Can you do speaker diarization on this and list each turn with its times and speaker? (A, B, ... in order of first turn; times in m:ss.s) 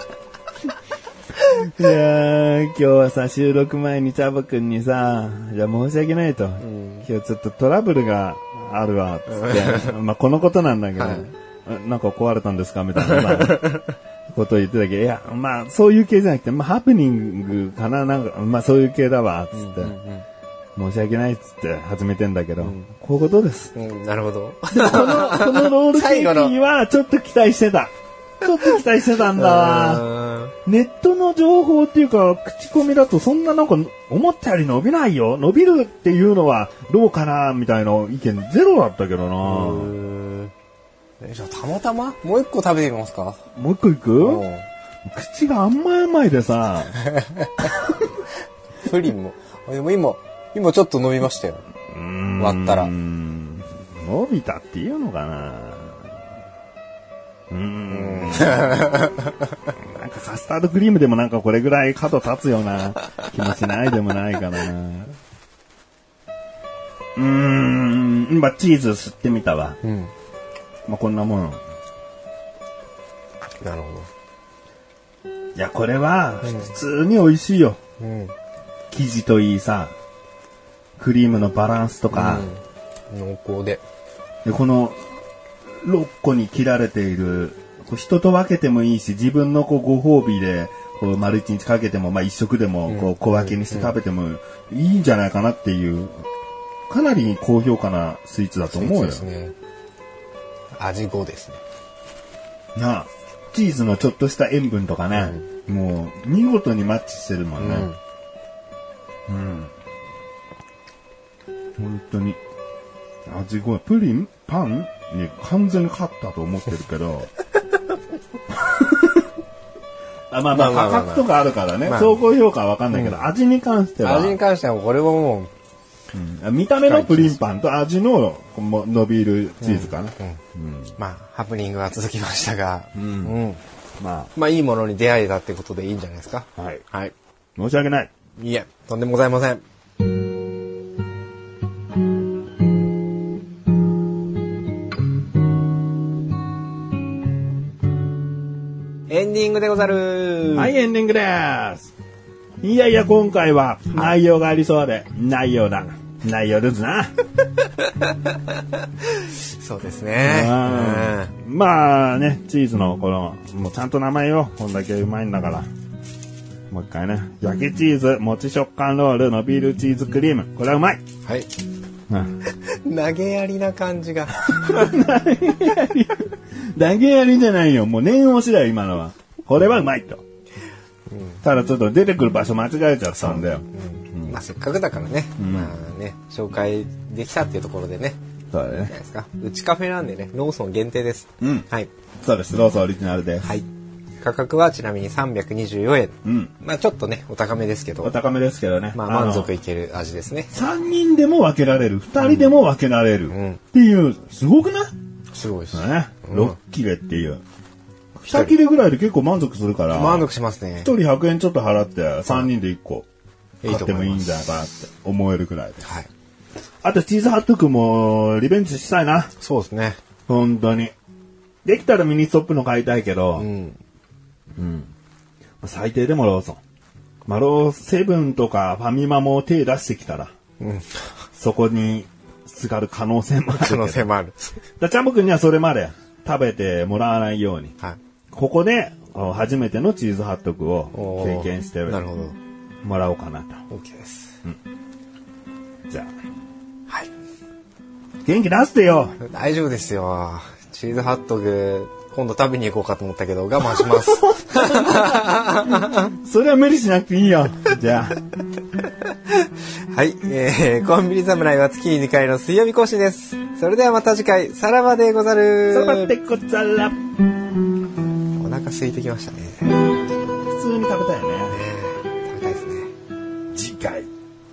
0:01.5-0:19.9 A
0:06.6-0:07.1 B
0:09.3-0:09.9 B
0:11.0-0:11.3 B
0:13.0-0:13.9 B
0:19.5-0:20.2 B
0:20.8-0:23.7 A
0:22.6-0:22.9 B
0:23.7-0:26.5 B
0:24.7-0:30.1 A
0:29.3-0:30.5 B
0:30.6-0:39.9 A
0:39.4-0:40.5 B
0:41.2-0:43.4 B
0:43.6-0:44.5 A
0:44.2-0:44.6 B
0:45.0-0:47.0 A
0:47.0-0:47.5 B
0:47.6-0:48.0 A
0:48.8-0:51.6 B
0:51.9-0:56.1 A
0:52.4-0:52.9 B
0:57.5-0:59.0 A
0:57.9-0:59.3 B
0:59.7-1:05.2 A
1:07.2-1:09.8 A
1:09.8-1:10.1 B
1:10.9-1:11.6 A
1:13.6-1:14.1 B
1:15.5-1:17.8 A
1:16.4-1:16.7 B
1:18.0-1:18.3 B
1:18.9-1:19.9 A
1:21.0-1:22.5 A
1:22.1-1:23.8 B
1:24.4-1:25.0 A
1:25.8-1:36.2 A
1:32.9-1:33.9 B
1:36.9-1:39.3 A
1:38.7-1:39.5 B
1:40.7-1:41.6 B
1:42.8-1:47.9 A
1:45.1-1:45.4 B
1:47.6-1:48.0 B
1:49.3-1:49.7 A
1:51.8-1:52.4 A
1:53.2-1:57.3 A
1:58.5-1:59.2 A
2:00.3-2:04.4 A
2:00.5-2:01.3 B
2:01.8-2:02.2 B
2:02.9-2:03.2 B
2:04.0-2:05.5 B
2:06.1-2:10.9 A
2:06.8-2:07.4 B
2:09.6-2:10.4 B
2:11.0-2:13.6 B
2:13.0-2:13.4 A
2:14.0-2:14.3 A
2:14.3-2:17.1 B
2:16.6-2:16.8 A
2:17.6-2:18.1 A
2:18.4-2:19.6 B
2:29.1-2:30.7 B
2:30.5-2:31.9 A
2:32.6-2:37.1 A
2:39.0-2:41.3 B
2:40.2-2:45.7 A
2:46.7-2:51.0 A
2:51.2-2:51.5 B
2:52.1-2:52.4 A
2:52.4-2:55.0 B
2:54.4-3:00.2 A
3:01.1-3:01.4 B
3:01.4-3:04.4 A
3:03.2-3:08.2 B
3:05.4-3:05.8 A
3:08.5-3:08.9 A
3:08.9-3:11.9 B
3:11.4-3:11.7 A
3:12.2-3:13.5 A
3:14.2-3:18.1 B
3:16.2-3:16.5 A
3:18.0-3:19.5 A
3:18.9-3:20.5 B
3:20.5-3:24.9 A
3:22.2-3:22.6 B
3:23.3-3:23.6 B
3:25.3-3:26.6 B
3:25.7-3:27.4 A
3:28.2-3:30.2 A
3:28.3-3:28.5 B
3:29.9-3:30.9 B
3:30.8-3:33.0 A
3:33.6-3:34.3 B
3:33.6-3:35.8 A
3:35.8-3:36.1 B
3:36.8-3:39.3 A
3:39.4-3:40.0 B
3:40.3-3:40.9 A
3:41.6-3:43.5 A
3:43.4-3:43.8 B
3:44.6-3:44.9 A
3:45.6-3:46.6 A
3:47.2-3:50.3 A
3:50.6-3:51.0 B
3:51.4-3:54.1 A
3:53.5-3:54.6 B
3:54.8-3:57.7 A
3:58.3-4:02.0 A
4:00.9-4:02.4 B
4:02.8-4:03.6 A
4:03.7-4:04.4 B
4:08.2-4:09.2 A
4:09.2-4:16.1 B
4:14.3-4:18.2 A
4:19.3-4:26.1 B
4:25.7-4:27.0 A
4:28.3-4:29.8 B
4:30.4-4:31.6 A
4:31.5-4:32.9 B
4:33.5-4:34.1 A